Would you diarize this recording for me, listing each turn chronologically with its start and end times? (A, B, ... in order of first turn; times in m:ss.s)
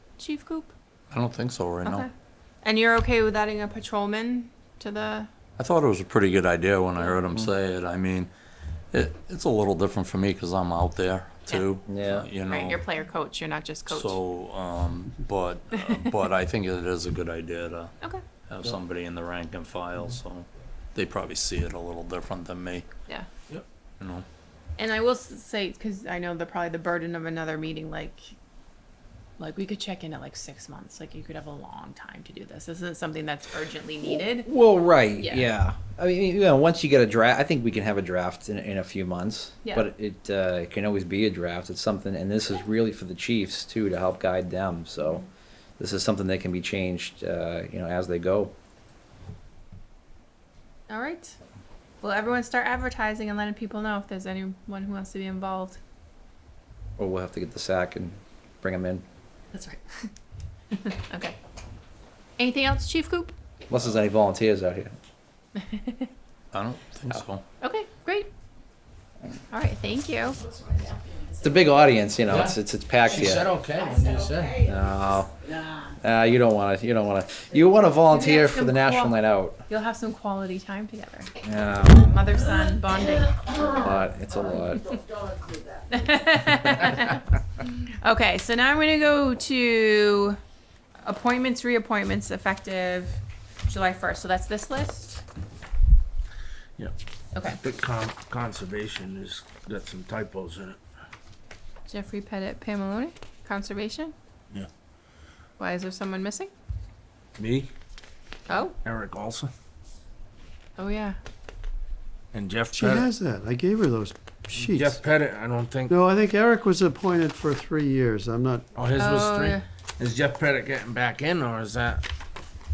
0:00.2-0:00.7 A
0:01.1-0:02.1 B
0:01.8-0:02.1 A
0:02.6-0:05.3 A
0:05.6-0:08.3 B
0:08.9-0:12.8 B
0:11.9-0:12.3 C
0:12.5-0:14.2 A
0:13.9-0:17.9 B
0:18.5-0:22.8 B
0:24.0-0:24.2 B
0:24.8-0:28.3 A
0:29.4-0:34.5 A
0:34.3-0:45.2 C
0:35.2-0:35.5 A
0:45.8-0:48.5 C
0:50.9-0:51.4 A
0:52.0-0:55.8 A
0:57.0-0:59.0 C
0:59.5-1:00.1 A
1:00.7-1:01.4 A
1:02.4-1:03.3 A
1:03.7-1:04.9 C
1:05.6-1:06.1 A
1:06.5-1:07.4 B
1:07.6-1:08.3 A
1:09.5-1:11.4 A
1:11.4-1:13.5 C
1:12.2-1:14.6 D
1:14.6-1:19.6 C
1:18.1-1:21.3 A
1:21.4-1:22.0 C
1:21.8-1:23.4 A
1:23.6-1:25.0 C
1:25.9-1:30.4 A
1:31.0-1:35.2 A
1:37.3-1:37.6 A
1:37.5-1:40.8 D
1:41.9-1:44.1 A
1:45.6-1:46.5 A
1:47.4-1:47.7 D
1:48.5-1:48.7 A
1:48.8-1:49.5 D
1:50.8-1:51.2 A
1:52.3-1:53.0 D
1:52.7-1:55.0 E
1:54.6-1:55.9 D
1:55.9-1:58.6 E
1:58.7-2:02.0 D
1:59.0-1:59.6 A